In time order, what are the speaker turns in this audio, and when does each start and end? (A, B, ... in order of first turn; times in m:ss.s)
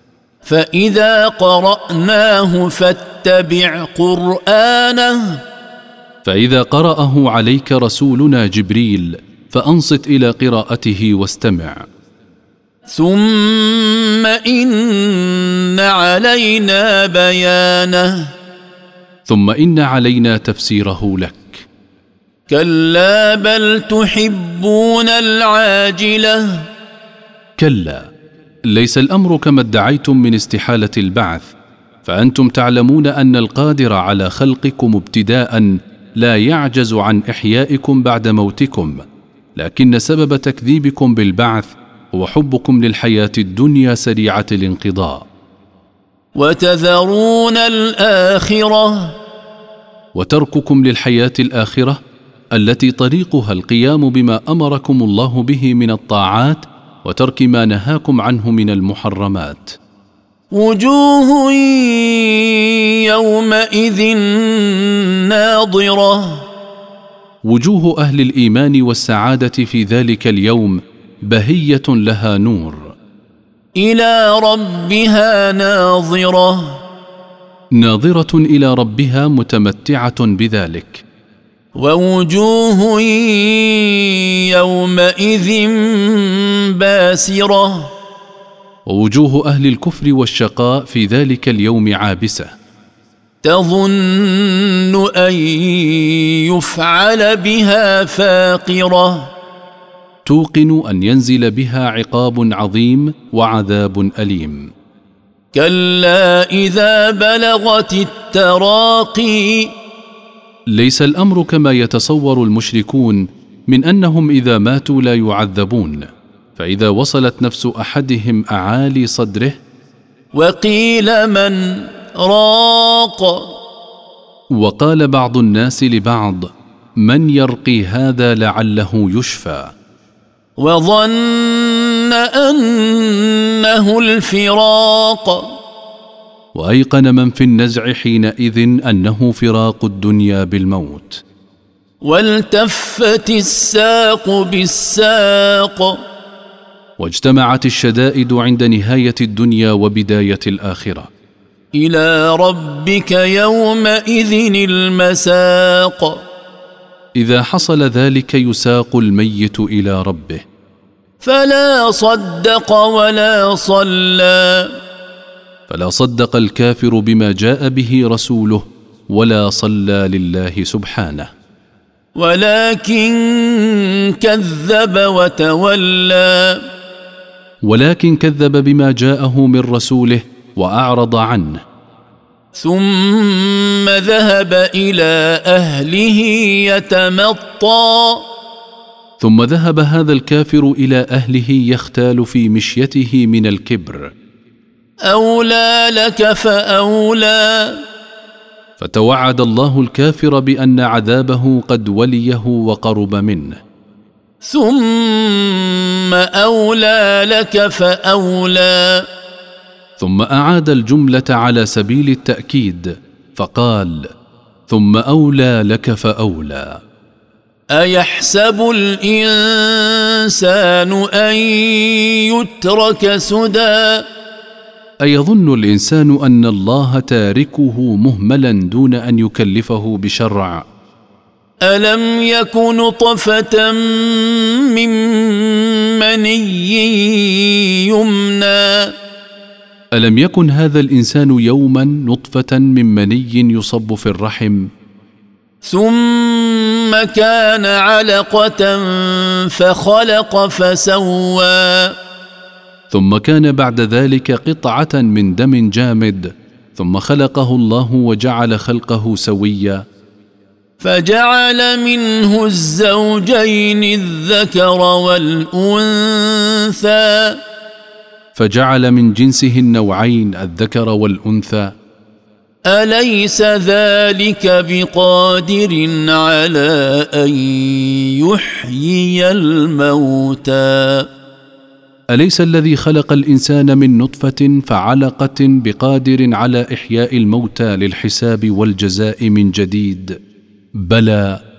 0:00.4-0:05.4 A
0:06.2-0:11.9 B
0:12.9-0:18.3 A
0:19.3-0:21.6 B
0:22.5-0:26.6 A
0:27.6-0:28.0 B
0:28.7-0:31.5 B
0:32.0-0:39.0 B
0:39.6-0:45.2 B
0:46.4-0:49.2 A
0:50.2-0:52.0 B
0:52.5-0:59.8 B
1:00.5-1:06.5 A
1:07.4-1:12.9 B
1:13.8-1:16.8 A
1:17.8-1:21.0 B
1:21.8-1:27.9 A
1:28.9-1:32.5 B
1:33.4-1:39.3 A
1:40.3-1:44.7 B
1:45.5-1:49.7 A
1:50.7-1:59.6 B
2:00.4-2:03.5 A
2:04.5-2:09.7 B
2:10.6-2:15.5 A
2:16.6-2:21.2 B
2:22.0-2:26.0 A
2:27.0-2:31.1 B
2:31.8-2:36.2 A
2:37.2-2:40.4 B
2:41.2-2:44.7 A
2:45.7-2:51.3 B
2:52.2-2:56.6 A
2:57.6-3:01.6 B
3:02.6-3:08.2 A
3:09.2-3:14.1 B
3:15.1-3:17.8 A
3:18.8-3:23.6 B
3:24.4-3:29.0 A
3:30.0-3:34.1 B
3:34.7-3:36.8 B
3:37.7-3:44.0 A
3:45.0-3:50.7 B
3:51.6-3:58.9 A
4:00.0-4:04.7 B
4:05.6-4:11.9 A
4:12.9-4:19.8 B
4:20.8-4:27.4 A
4:28.4-4:31.7 B
4:32.7-4:41.1 A
4:42.1-4:50.2 B
4:50.8-4:51.4 B